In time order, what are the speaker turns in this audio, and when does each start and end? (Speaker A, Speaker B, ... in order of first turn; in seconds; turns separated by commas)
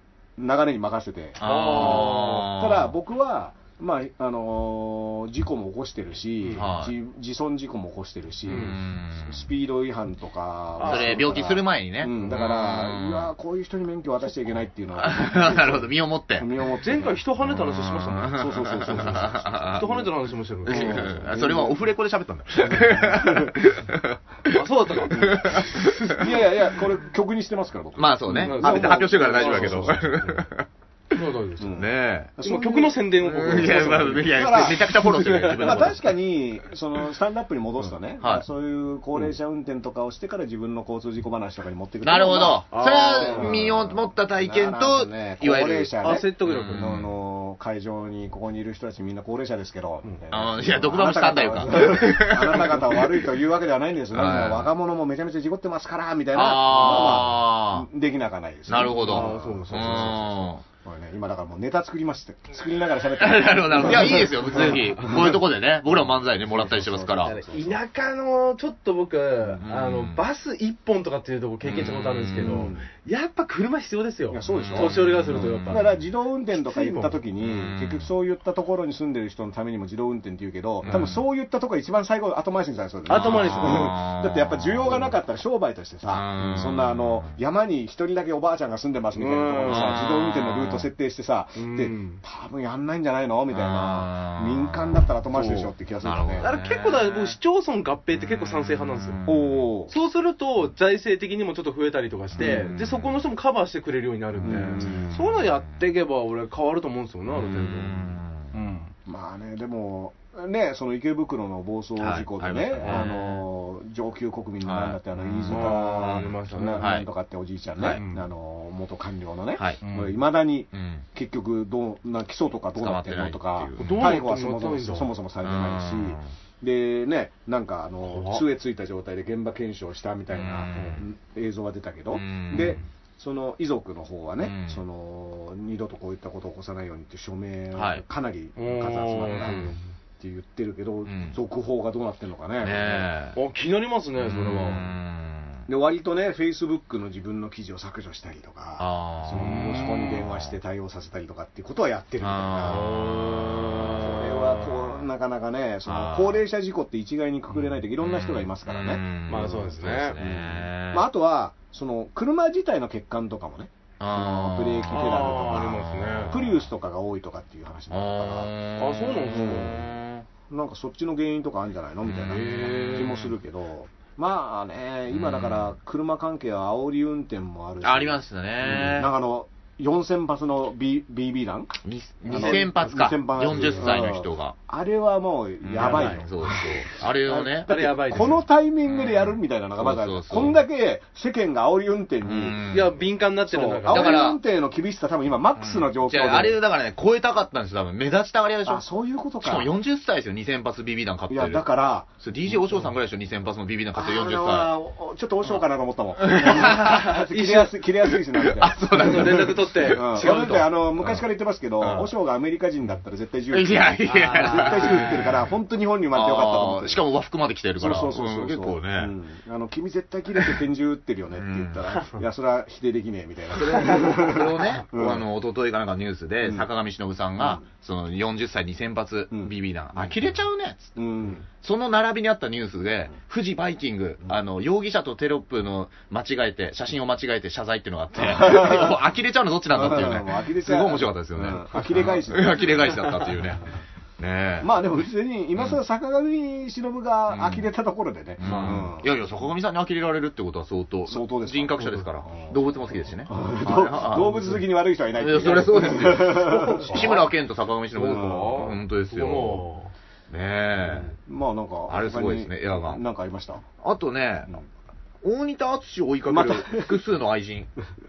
Speaker A: 0.4-15.9, Speaker B: 1.4-2.9, Speaker C: 1.4-2.5, Speaker B: 6.5-7.0, Speaker C: 8.5-8.8, Speaker B: 8.5-9.5, Speaker C: 10.8-11.4, Speaker B: 10.8-13.3, Speaker B: 15.0-16.5, Speaker A: 16.4-17.2, Speaker C: 16.8-19.2, Speaker B: 17.4-19.9, Speaker A: 18.3-20.1, Speaker C: 19.8-21.4, Speaker B: 20.6-26.3, Speaker A: 20.6-21.8, Speaker A: 22.6-23.6, Speaker C: 24.5-26.3, Speaker A: 25.1-30.1, Speaker B: 28.0-32.3, Speaker C: 28.3-30.5, Speaker C: 31.1-31.8, Speaker A: 31.6-67.8, Speaker C: 32.4-36.0, Speaker B: 33.2-36.0, Speaker B: 42.0-47.1, Speaker C: 42.7-43.7, Speaker C: 46.0-47.0, Speaker B: 50.3-53.3, Speaker B: 54.1-54.7, Speaker B: 56.3-57.9, Speaker B: 58.7-60.6, Speaker C: 58.8-60.1, Speaker B: 63.2-67.4, Speaker C: 63.9-64.9, Speaker C: 67.2-76.0, Speaker B: 69.6-70.2, Speaker B: 71.6-72.7, Speaker A: 72.4-72.9, Speaker A: 74.3-96.5, Speaker B: 74.5-75.8, Speaker C: 76.5-77.2, Speaker B: 77.4-78.1, Speaker B: 80.8-81.2, Speaker C: 80.9-81.1, Speaker C: 83.1-84.0, Speaker B: 83.1-85.1, Speaker B: 86.1-87.4, Speaker C: 89.2-90.1, Speaker B: 89.7-90.9, Speaker C: 91.6-92.2, Speaker B: 93.5-95.0, Speaker C: 95.3-95.7, Speaker B: 96.0-97.4, Speaker C: 96.4-99.2, Speaker B: 99.0-99.6, Speaker A: 99.3-99.9, Speaker C: 99.9-108.9, Speaker A: 102.4-102.7, Speaker B: 102.4-103.2, Speaker B: 104.4-105.8, Speaker A: 104.4-105.1, Speaker B: 107.3-108.5, Speaker A: 109.1-143.1, Speaker B: 112.0-113.4, Speaker C: 112.8-113.2, Speaker B: 114.6-117.1, Speaker C: 115.5-117.0, Speaker C: 117.9-118.3, Speaker C: 119.8-120.2, Speaker B: 120.7-121.0, Speaker B: 122.8-124.0, Speaker C: 123.8-125.1, Speaker B: 125.4-126.3, Speaker C: 128.1-128.4, Speaker B: 130.3-131.0, Speaker B: 132.1-132.8, Speaker B: 134.4-134.8, Speaker B: 137.7-138.0, Speaker C: 138.6-139.8, Speaker B: 139.4-139.7, Speaker B: 141.1-141.4, Speaker B: 142.6-143.4, Speaker C: 143.3-144.9, Speaker B: 144.2-145.7, Speaker A: 145.7-152.9, Speaker B: 148.8-150.2, Speaker C: 149.3-150.2, Speaker B: 152.2-153.9, Speaker C: 152.7-154.4, Speaker A: 153.7-159.0, Speaker B: 155.9-156.4, Speaker B: 158.0-161.1, Speaker C: 159.3-160.2, Speaker A: 160.2-168.5, Speaker B: 164.0-166.5, Speaker C: 164.9-166.4, Speaker B: 167.9-170.3, Speaker C: 168.8-169.9, Speaker A: 169.3-169.8, Speaker A: 170.5-192.7, Speaker B: 172.1-173.3, Speaker C: 172.3-173.2, Speaker B: 175.1-175.7, Speaker B: 177.8-179.1, Speaker B: 181.8-184.6, Speaker C: 182.3-182.7, Speaker C: 183.4-183.9, Speaker B: 185.6-190.6, Speaker C: 185.8-186.7, Speaker C: 187.3-188.4, Speaker B: 192.2-192.9, Speaker C: 192.7-194.3, Speaker A: 193.5-196.6, Speaker B: 193.9-194.4, Speaker B: 195.6-198.8, Speaker A: 198.7-199.7, Speaker B: 199.4-201.7, Speaker A: 201.3-202.8, Speaker B: 202.2-204.7, Speaker A: 203.9-217.1, Speaker B: 206.2-207.2, Speaker C: 206.4-207.8, Speaker B: 208.4-211.2, Speaker C: 208.9-210.7, Speaker B: 211.8-212.1, Speaker B: 213.5-215.4, Speaker C: 214.1-215.3, Speaker B: 216.1-219.1, Speaker A: 217.8-225.3, Speaker B: 221.3-221.9, Speaker B: 223.6-231.0, Speaker A: 229.3-230.3, Speaker A: 231.0-231.5, Speaker B: 231.5-243.6, Speaker A: 238.2-239.0, Speaker A: 239.7-243.0, Speaker B: 244.2-244.7, Speaker A: 244.6-249.1, Speaker B: 247.3-247.7, Speaker B: 248.4-254.4, Speaker C: 248.4-248.9, Speaker A: 251.1-252.6, Speaker C: 251.8-252.1, Speaker A: 253.3-257.3, Speaker C: 254.2-254.7, Speaker B: 255.2-259.6, Speaker C: 255.3-257.3, Speaker C: 257.9-259.9, Speaker A: 258.0-258.7, Speaker B: 260.3-261.1, Speaker A: 260.9-263.6, Speaker B: 261.9-263.0, Speaker B: 263.8-264.5, Speaker B: 265.2-267.7, Speaker A: 266.3-266.9